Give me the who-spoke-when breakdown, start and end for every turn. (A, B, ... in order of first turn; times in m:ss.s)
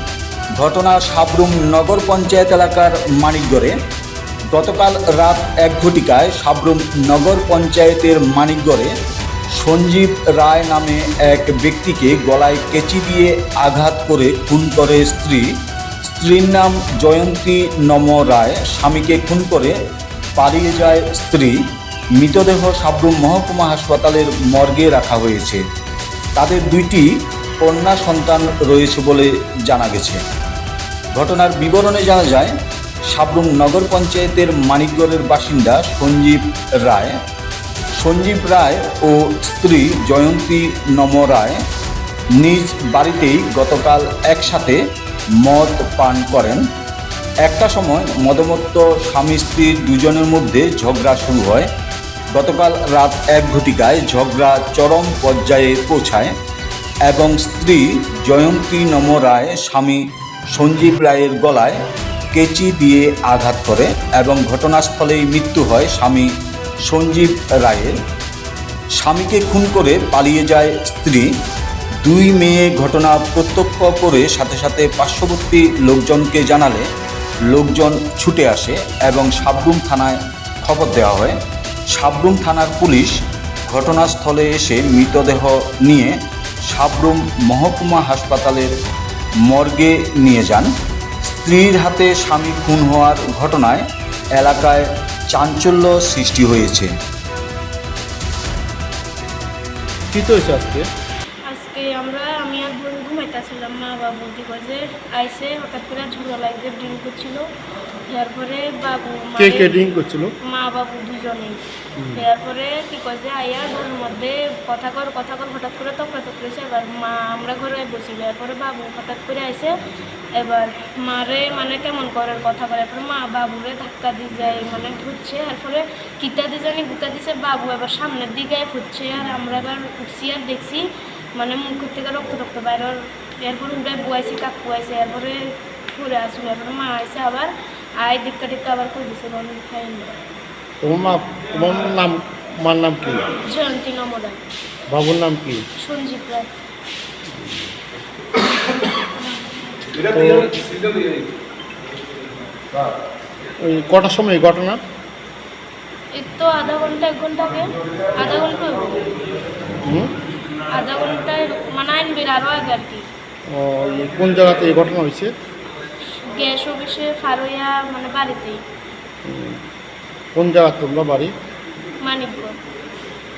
0:00.6-0:03.7 A
0:04.5-0:08.9 A
0:09.6-0:15.5 A
0:16.0-0:19.8 A
0:20.4-0:21.6 A
0:22.2-0:25.6 A
0:26.4-0:27.1 A
0:27.6-0:30.2 A
0:31.1-0:32.5 A
0:33.1-0:37.2 A
0:38.0-0:41.6 A
0:42.4-0:44.8 A
0:45.4-0:46.6 A
0:47.4-0:51.7 A
0:52.3-0:56.3 A
0:57.1-1:01.8 A
1:02.3-1:06.3 A
1:06.8-1:07.9 A
1:09.0-1:11.3 A
1:12.0-1:16.9 A
1:17.5-1:21.4 A
1:21.9-1:28.7 A
1:29.5-1:30.7 A
1:31.2-1:33.8 A
1:34.4-1:36.9 A
1:40.1-1:40.9 B
1:41.5-1:47.5 C
1:48.1-1:49.8 C
1:49.4-1:50.3 B
1:50.4-1:51.6 C
1:52.0-1:52.2 B
1:52.1-2:10.8 C
2:11.4-2:20.1 C
2:20.8-2:23.2 B
2:23.4-2:24.4 C
2:24.9-2:25.6 B
2:25.8-2:26.5 C
2:30.0-2:30.6 B
2:33.6-2:34.8 B
2:36.1-2:39.0 C
2:39.8-2:40.1 B
2:40.7-2:43.0 C
2:43.5-2:45.3 B
2:46.2-2:48.6 C
2:49.2-2:49.6 B
2:50.3-2:51.3 B
2:52.0-2:52.6 C